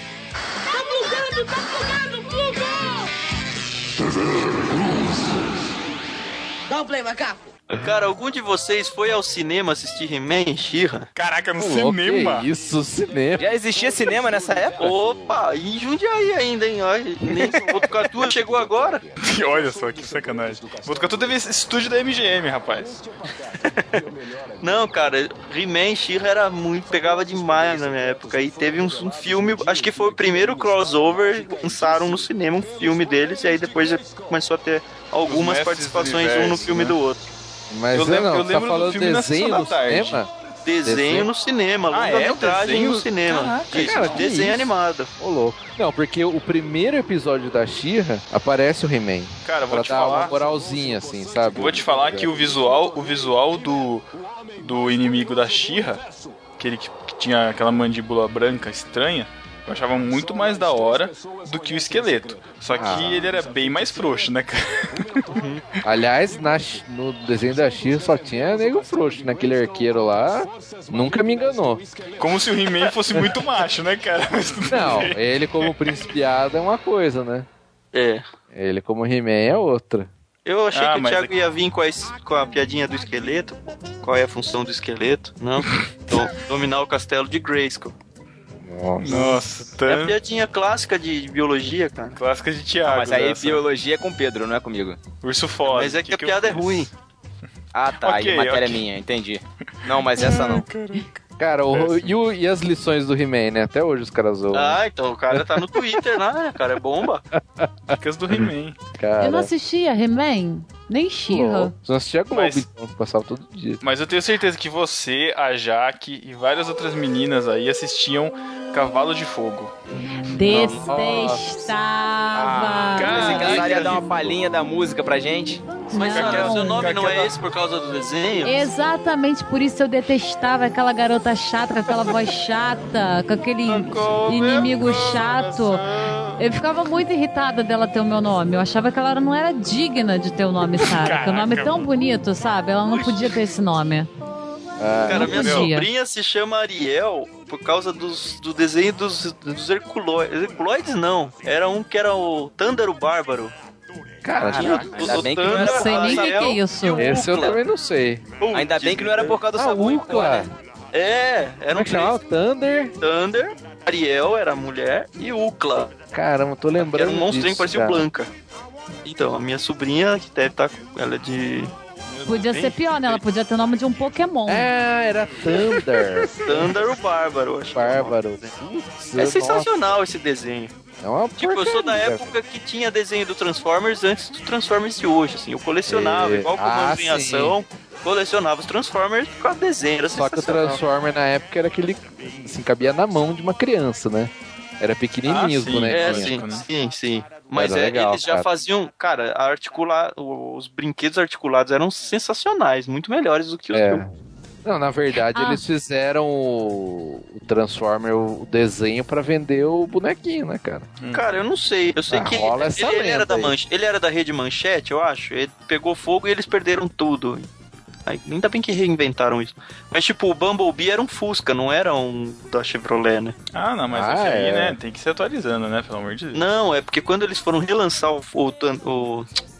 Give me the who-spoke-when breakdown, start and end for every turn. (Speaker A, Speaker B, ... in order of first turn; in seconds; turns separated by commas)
Speaker A: 0.5-3.1, Speaker A: 4.0-5.7, Speaker A: 6.7-7.5, Speaker B: 7.8-11.1, Speaker C: 11.1-12.5, Speaker D: 11.6-13.5, Speaker E: 13.4-14.9, Speaker B: 14.8-19.0, Speaker C: 19.2-23.0, Speaker B: 23.6-24.0, Speaker B: 24.6-37.3, Speaker C: 35.2-37.0, Speaker D: 37.7-40.3, Speaker C: 37.9-40.2, Speaker B: 40.6-45.1, Speaker D: 40.8-41.3, Speaker C: 41.9-44.2, Speaker D: 43.7-52.5, Speaker C: 49.4-50.4, Speaker C: 51.5-54.0, Speaker C: 54.6-56.0, Speaker C: 56.6-65.4, Speaker D: 62.7-63.3, Speaker B: 65.3-65.7, Speaker D: 65.8-71.9, Speaker C: 72.2-75.7, Speaker D: 74.7-77.5, Speaker B: 77.9-78.2, Speaker D: 78.5-80.1, Speaker B: 80.4-87.9, Speaker C: 80.7-81.3, Speaker D: 88.6-89.4, Speaker C: 89.0-90.2, Speaker B: 89.8-92.2, Speaker C: 92.2-93.6, Speaker E: 92.8-95.0, Speaker C: 95.2-96.9, Speaker B: 95.6-96.9, Speaker E: 97.7-100.7, Speaker C: 98.0-98.8, Speaker C: 99.8-101.2, Speaker D: 101.4-106.1, Speaker C: 101.7-102.2, Speaker B: 104.5-107.2, Speaker D: 107.3-109.5, Speaker C: 108.0-108.8, Speaker F: 109.2-111.7, Speaker D: 111.3-113.8, Speaker C: 112.3-112.6, Speaker C: 113.8-119.7, Speaker F: 120.2-123.5, Speaker D: 120.4-121.6, Speaker B: 120.5-120.8, Speaker E: 122.3-125.7, Speaker C: 122.9-124.0, Speaker B: 123.1-124.0, Speaker F: 125.9-126.9, Speaker B: 125.9-128.6, Speaker C: 126.1-127.4, Speaker F: 128.4-135.8, Speaker C: 133.7-136.5, Speaker F: 136.4-144.1, Speaker C: 140.8-141.9, Speaker D: 144.8-145.6, Speaker B: 145.0-153.5, Speaker F: 145.1-145.9, Speaker C: 145.3-145.7, Speaker D: 154.2-155.2, Speaker E: 154.4-156.6, Speaker B: 154.5-157.6, Speaker F: 155.4-157.2, Speaker D: 156.9-158.2, Speaker B: 158.4-159.4, Speaker E: 158.5-160.5, Speaker D: 159.5-160.5, Speaker B: 160.9-162.1, Speaker D: 161.7-162.9, Speaker B: 163.0-165.9, Speaker D: 166.1-168.1, Speaker B: 166.8-168.3, Speaker B: 169.0-171.7, Speaker F: 172.2-174.7, Speaker C: 172.3-172.9, Speaker D: 174.5-176.8, Speaker B: 176.4-178.5, Speaker D: 177.7-179.7, Speaker B: 179.2-180.7, Speaker D: 181.0-182.3, Speaker B: 181.3-190.8, Speaker D: 185.9-187.6, Speaker D: 190.1-196.4, Speaker C: 195.3-196.7, Speaker B: 195.9-204.0, Speaker D: 197.5-198.5, Speaker D: 203.7-204.1, Speaker D: 204.6-210.9, Speaker F: 205.3-205.6, Speaker C: 211.0-211.3, Speaker B: 211.1-217.5, Speaker D: 212.1-213.5, Speaker B: 218.1-223.3, Speaker C: 223.5-226.4, Speaker D: 223.9-224.8, Speaker B: 226.3-229.3